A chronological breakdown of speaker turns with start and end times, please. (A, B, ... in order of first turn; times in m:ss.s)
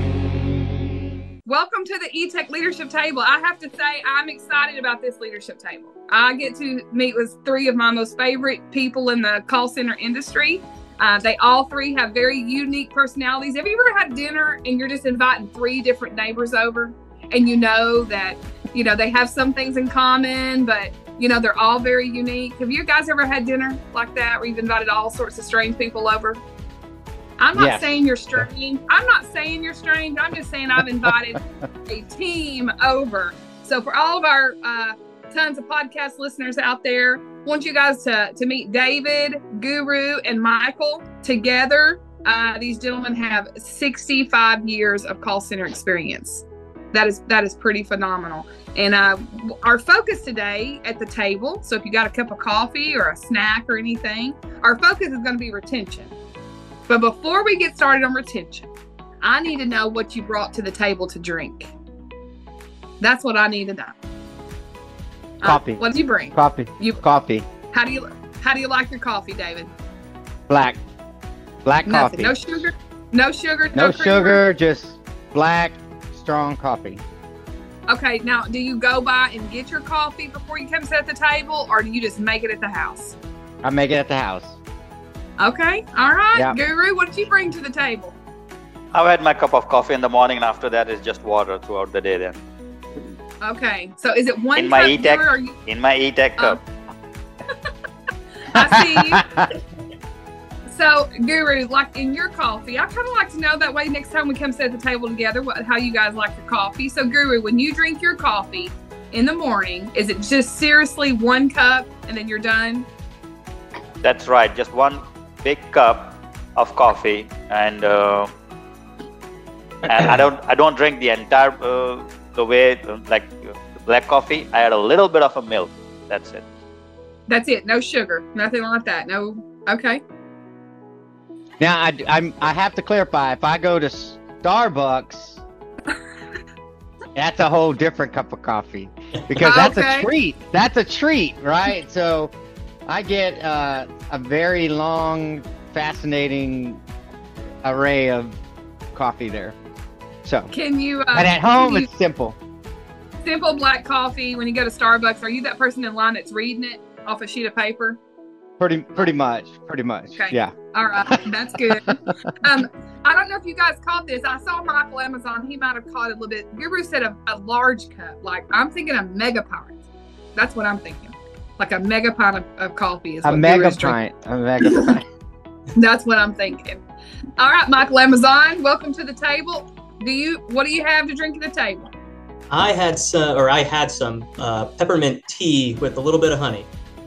0:01.5-0:26.4 A
0:27.4-0:56.2 A
0:27.5-0:28.0 B
0:56.9-0:58.7 A
0:59.2-1:01.7 A
1:03.0-1:04.0 A
1:05.4-1:07.0 A
1:05.4-1:07.5 B
1:07.7-1:09.7 A
1:10.5-1:10.8 B
1:11.6-1:12.6 B
1:11.9-1:14.4 A
1:13.7-1:17.0 B
1:17.9-1:23.2 A
1:23.6-1:24.6 B
1:25.4-1:28.2 A
1:28.9-1:32.4 C
1:33.4-1:35.6 A
1:34.6-1:36.6 C
1:38.4-1:39.3 A
1:38.5-1:39.5 B
1:40.7-1:52.9 A
1:54.0-1:58.3 C
1:59.8-2:06.5 C
2:07.3-2:10.0 A
2:11.6-2:15.4 B
2:17.2-2:22.3 B
2:19.4-2:20.1 A
2:22.9-2:26.8 B
2:27.6-2:28.4 B
2:28.9-2:29.6 B
2:30.2-2:30.5 B
2:30.5-2:31.9 A
2:31.1-2:32.4 B
2:33.2-2:38.0 A
2:38.6-2:40.6 B
2:40.2-2:49.8 A
2:50.4-2:54.0 A
2:53.2-2:55.0 B
2:55.8-2:56.8 A
2:57.4-3:01.9 A
3:02.5-3:06.7 D